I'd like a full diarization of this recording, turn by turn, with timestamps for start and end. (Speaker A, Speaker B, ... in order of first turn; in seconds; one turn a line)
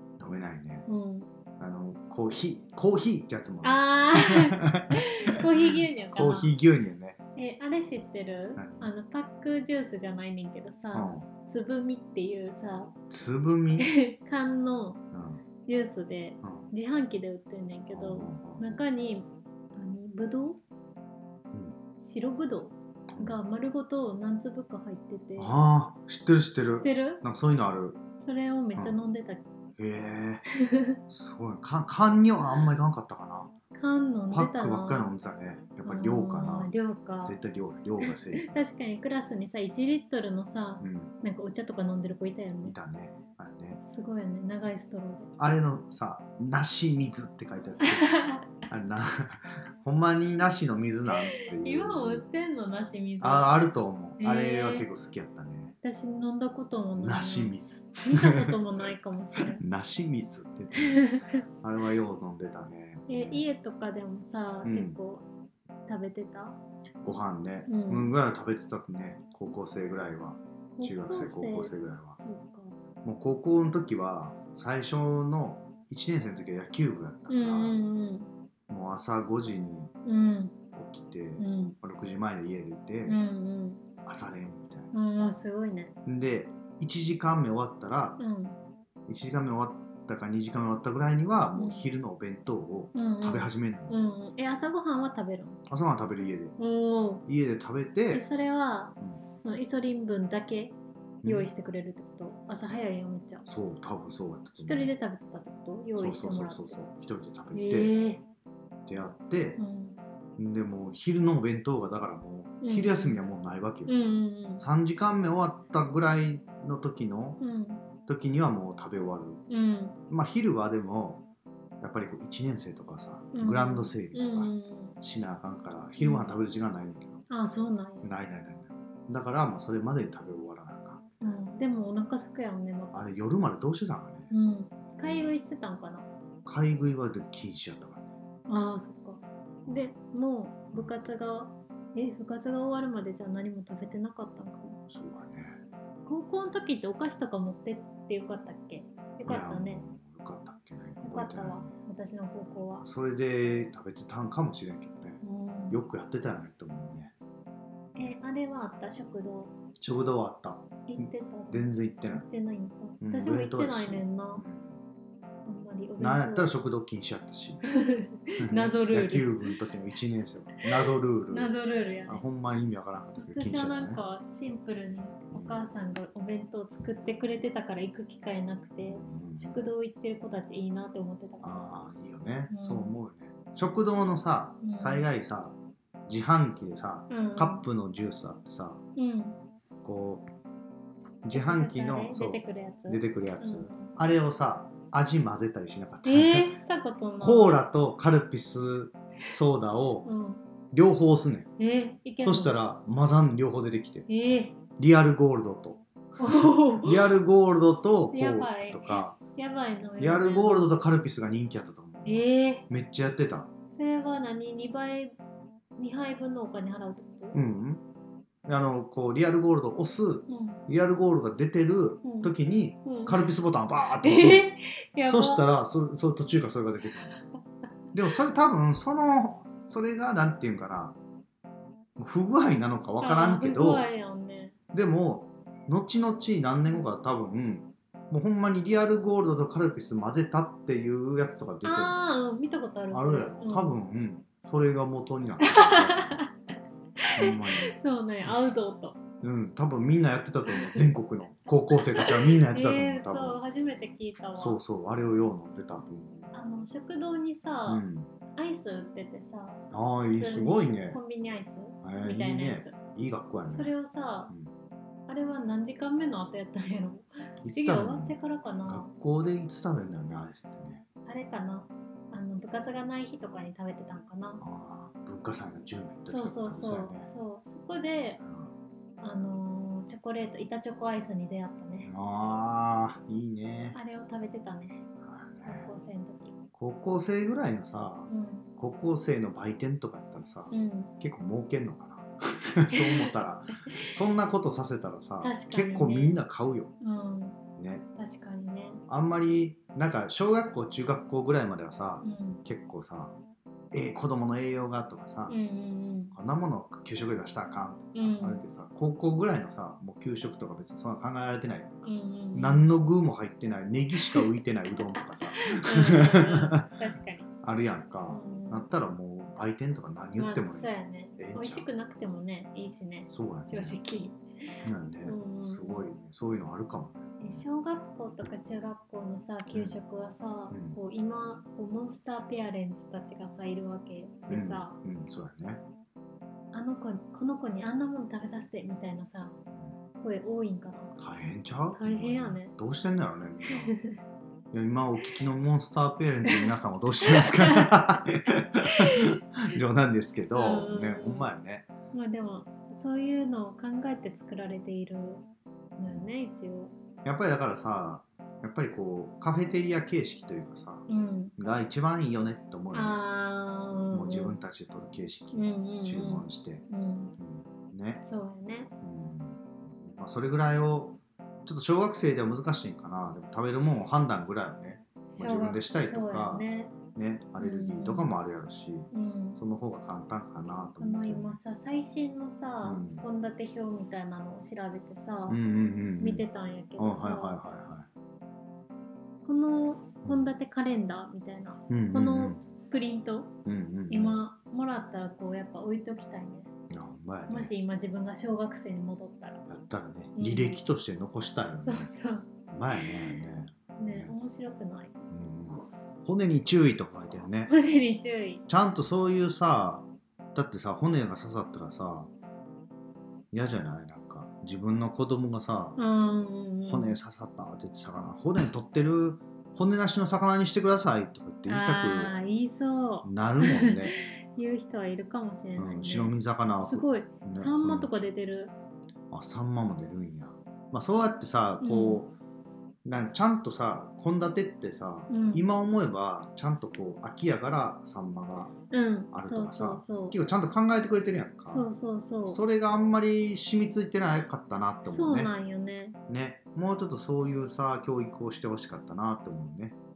Speaker A: 0.2-0.9
Speaker B: 0.9-1.3
Speaker A: 1.6-7.2
Speaker B: 3.6-6.5
Speaker B: 7.4-12.9
Speaker A: 8.6-8.9
Speaker A: 10.9-11.3
Speaker A: 13.1-13.9
Speaker B: 13.8-15.0
Speaker A: 15.1-15.4
Speaker B: 15.7-20.6
Speaker A: 16.4-16.7
Speaker A: 17.9-18.8
Speaker A: 21.5-21.8
Speaker B: 22.0-25.6
Speaker A: 23.1-23.4
Speaker A: 25.4-28.0
Speaker B: 26.6-27.2
Speaker B: 28.2-29.4
Speaker A: 29.8-30.4
Speaker B: 30.6-31.0
Speaker A: 31.1-33.5
Speaker B: 33.7-35.1
Speaker A: 34.3-36.7
Speaker B: 35.8-37.4
Speaker A: 37.2-38.6
Speaker B: 38.0-42.8
Speaker A: 40.8-41.1
Speaker A: 42.6-43.8
Speaker B: 43.8-45.3
Speaker A: 45.4-52.2
Speaker B: 47.8-48.5
Speaker B: 51.1-53.6
Speaker A: 53.2-55.7
Speaker B: 54.2-54.9
Speaker B: 55.8-59.6
Speaker A: 57.0-58.6
Speaker A: 59.4-61.1
Speaker B: 60.8-61.4
Speaker A: 61.6-63.4
Speaker B: 63.1-65.3
Speaker A: 64.6-65.0
Speaker B: 65.9-66.6
Speaker A: 67.0-72.2
Speaker B: 67.7-68.1
Speaker B: 70.7-72.8
Speaker A: 73.0-77.8
Speaker B: 77.3-78.3
Speaker A: 78.7-79.9
Speaker B: 80.0-80.5
Speaker A: 80.8-83.2
Speaker B: 81.4-81.8
Speaker B: 83.1-83.8
Speaker A: 84.0-84.9
Speaker B: 84.9-85.9
Speaker A: 86.1-88.2
Speaker B: 88.2-88.6
Speaker A: 89.1-94.0
Speaker B: 91.6-91.9
Speaker B: 93.0-95.6
Speaker A: 95.7-96.6
Speaker B: 96.6-97.2
Speaker A: 97.3-98.3
Speaker B: 98.1-103.5
Speaker A: 101.2-101.5
Speaker A: 103.5-104.9
Speaker B: 104.6-106.8
Speaker A: 106.0-107.9
Speaker B: 107.5-108.2
Speaker A: 108.9-109.6
Speaker B: 109.6-110.0
Speaker A: 110.4-113.9
Speaker B: 112.6-113.2
Speaker B: 113.9-114.6
Speaker A: 114.6-117.4
Speaker B: 117.4-117.8
Speaker A: 118.1-119.4
Speaker B: 119.5-120.0
Speaker A: 120.1-121.2
Speaker A: 121.8-127.2
Speaker B: 123.3-125.0
Speaker B: 126.0-126.3
Speaker B: 127.3-128.1
Speaker A: 128.0-131.0
Speaker B: 131.2-133.0
Speaker A: 132.9-134.3
Speaker B: 134.3-136.1
Speaker A: 134.9-135.3
Speaker A: 136.4-138.1
Speaker B: 138.5-144.8
Speaker A: 139.7-139.9
Speaker A: 140.7-141.1
Speaker A: 144.9-145.6
Speaker B: 146.1-149.8
Speaker A: 149.2-151.7
Speaker B: 151.0-152.9
Speaker A: 152.8-157.1
Speaker B: 155.2-155.8
Speaker B: 157.9-159.5
Speaker A: 159.8-162.3
Speaker B: 160.9-164.4
Speaker A: 163.0-164.8
Speaker B: 165.5-166.5
Speaker A: 166.0-167.6
Speaker B: 167.6-169.5
Speaker A: 168.4-171.6
Speaker B: 171.3-172.2
Speaker A: 172.1-174.0
Speaker B: 173.2-181.6
Speaker A: 175.3-175.6
Speaker A: 178.8-179.6
Speaker A: 181.4-185.6
Speaker B: 182.5-183.0
Speaker B: 184.6-185.1
Speaker A: 186.1-188.8
Speaker B: 187.1-187.7
Speaker B: 189.0-189.4
Speaker A: 189.8-190.3
Speaker A: 191.2-196.5
Speaker B: 191.3-194.0
Speaker B: 196.1-197.6
Speaker A: 197.2-200.1
Speaker B: 200.1-200.4
Speaker A: 200.7-201.5
Speaker B: 201.6-202.6
Speaker A: 202.2-204.1
Speaker B: 204.1-204.6
Speaker A: 204.8-209.2
Speaker B: 206.2-207.1
Speaker B: 208.1-210.7
Speaker A: 210.0-213.5
Speaker B: 212.1-212.7
Speaker B: 213.8-215.2
Speaker B: 215.8-217.4
Speaker A: 217.3-217.8
Speaker A: 218.5-224.5
Speaker B: 220.3-220.6
Speaker B: 222.0-222.3
Speaker B: 222.8-223.2
Speaker B: 224.0-225.4
Speaker A: 225.1-227.2
Speaker A: 227.9-231.0
Speaker A: 232.0-233.9
Speaker B: 233.0-234.5
Speaker A: 234.7-241.9
Speaker B: 241.6-243.8
Speaker A: 242.9-246.2
Speaker B: 245.4-246.3
Speaker B: 247.0-249.0
Speaker A: 247.2-247.7
Speaker A: 249.2-253.4
Speaker B: 250.5-250.8
Speaker B: 251.9-254.6
Speaker A: 254.3-256.4
Speaker B: 256.3-257.8
Speaker A: 257.7-258.1
Speaker B: 258.4-259.6
Speaker A: 259.7-261.0
Speaker B: 260.1-262.8
Speaker A: 261.8-263.7
Speaker B: 263.5-264.3
Speaker B: 265.1-268.9
Speaker A: 267.4-270.8
Speaker B: 271.1-274.4
Speaker A: 274.4-277.1
Speaker B: 276.1-278.2
Speaker A: 278.2-278.5
Speaker B: 279.0-281.9
Speaker A: 281.9-283.8
Speaker B: 283.7-284.8
Speaker A: 285.0-285.7
Speaker B: 285.4-286.3
Speaker A: 286.6-296.7
Speaker B: 288.1-288.5
Speaker B: 290.5-290.9
Speaker B: 292.7-293.1
Speaker B: 295.2-296.2
Speaker B: 296.8-297.4
Speaker A: 297.6-297.9
Speaker B: 298.0-298.8
Speaker A: 298.9-303.1
Speaker B: 302.0-302.4
Speaker A: 303.7-305.4
Speaker B: 305.3-306.2
Speaker A: 306.1-316.7
Speaker B: 307.9-308.4
Speaker B: 311.8-312.7
Speaker B: 314.8-317.3
Speaker A: 317.4-321.7
Speaker B: 318.1-318.7
Speaker B: 320.2-324.5
Speaker A: 323.1-323.8
Speaker A: 324.6-327.4
Speaker B: 325.1-326.0
Speaker B: 327.2-334.8
Speaker A: 329.5-329.8
Speaker A: 330.5-330.8
Speaker A: 334.3-335.6
Speaker B: 336.5-339.4
Speaker B: 340.0-340.9
Speaker A: 341.0-343.7
Speaker B: 341.7-342.5
Speaker B: 343.6-344.0
Speaker A: 344.5-351.7
Speaker B: 347.1-349.2
Speaker B: 350.3-351.3
Speaker B: 351.9-355.2
Speaker B: 355.8-356.7
Speaker A: 357.1-360.9
Speaker B: 360.9-361.4
Speaker A: 361.4-363.0
Speaker B: 362.7-364.4
Speaker A: 363.9-366.6
Speaker B: 365.3-367.2
Speaker A: 367.2-368.0
Speaker B: 368.0-368.7
Speaker A: 368.8-381.3
Speaker B: 375.1-376.8
Speaker B: 377.4-378.2
Speaker B: 378.9-379.4
Speaker B: 380.8-385.4
Speaker A: 382.6-383.0
Speaker A: 385.3-386.2
Speaker B: 386.0-387.4
Speaker A: 386.8-387.9
Speaker B: 389.2-393.3
Speaker A: 390.1-390.3
Speaker A: 391.7-392.4
Speaker A: 393.4-394.2
Speaker B: 393.9-396.5
Speaker A: 396.7-397.5
Speaker B: 397.3-399.4
Speaker A: 399.5-401.9
Speaker B: 400.2-400.6
Speaker B: 401.6-403.2
Speaker A: 402.5-404.1
Speaker B: 403.8-405.0
Speaker A: 405.1-407.5
Speaker B: 407.5-408.4
Speaker A: 408.5-412.1
Speaker A: 413.3-415.8
Speaker B: 415.8-417.0
Speaker A: 416.6-422.2
Speaker B: 421.5-428.6
Speaker A: 423.0-424.0
Speaker A: 425.6-428.0
Speaker A: 429.1-432.1
Speaker B: 431.6-432.0
Speaker A: 432.9-438.5
Speaker B: 435.1-435.4
Speaker B: 438.7-440.2
Speaker A: 439.1-441.7
Speaker B: 441.5-442.4
Speaker A: 442.3-445.3
Speaker B: 444.9-446.0
Speaker A: 446.1-449.8